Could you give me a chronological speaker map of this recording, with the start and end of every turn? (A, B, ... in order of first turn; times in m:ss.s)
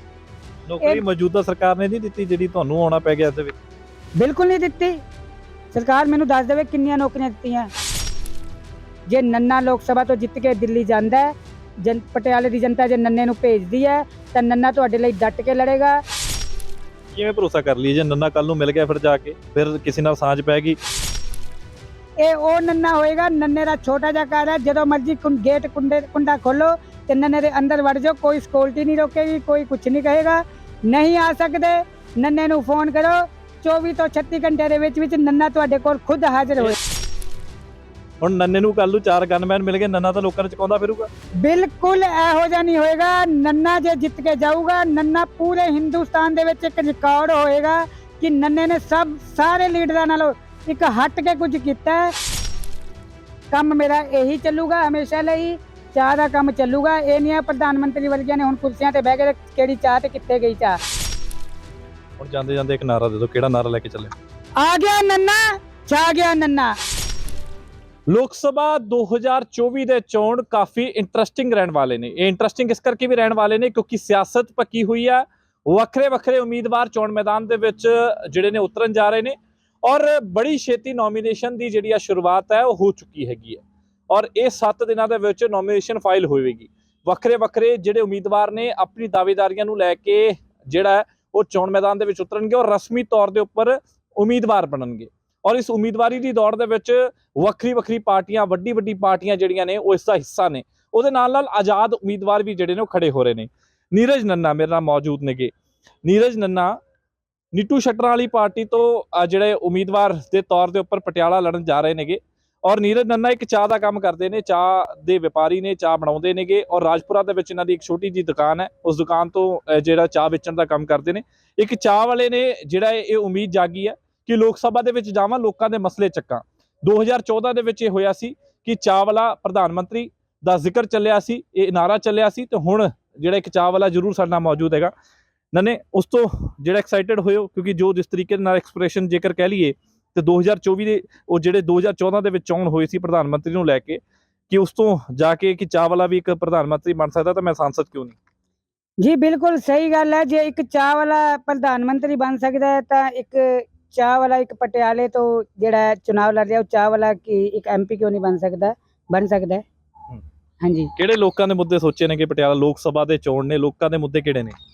0:00.6-0:03.5 A
0:04.2-0:05.0 B
0:05.7-0:07.7 B
0:09.1-0:16.0 B
0:17.1-0:20.8 A
0:22.2-0:36.8 B
0:38.2-0:41.1 A
0:41.4-0:52.1 B
0:53.5-1:00.8 B
1:02.2-1:04.1 A
1:04.6-1:06.7 B
1:08.1-1:45.5 A
1:46.0-1:46.7 A
1:47.5-2:14.9 A
2:15.5-2:28.2 A
2:29.0-2:39.6 B
2:40.6-2:40.9 B
2:41.0-2:44.6 A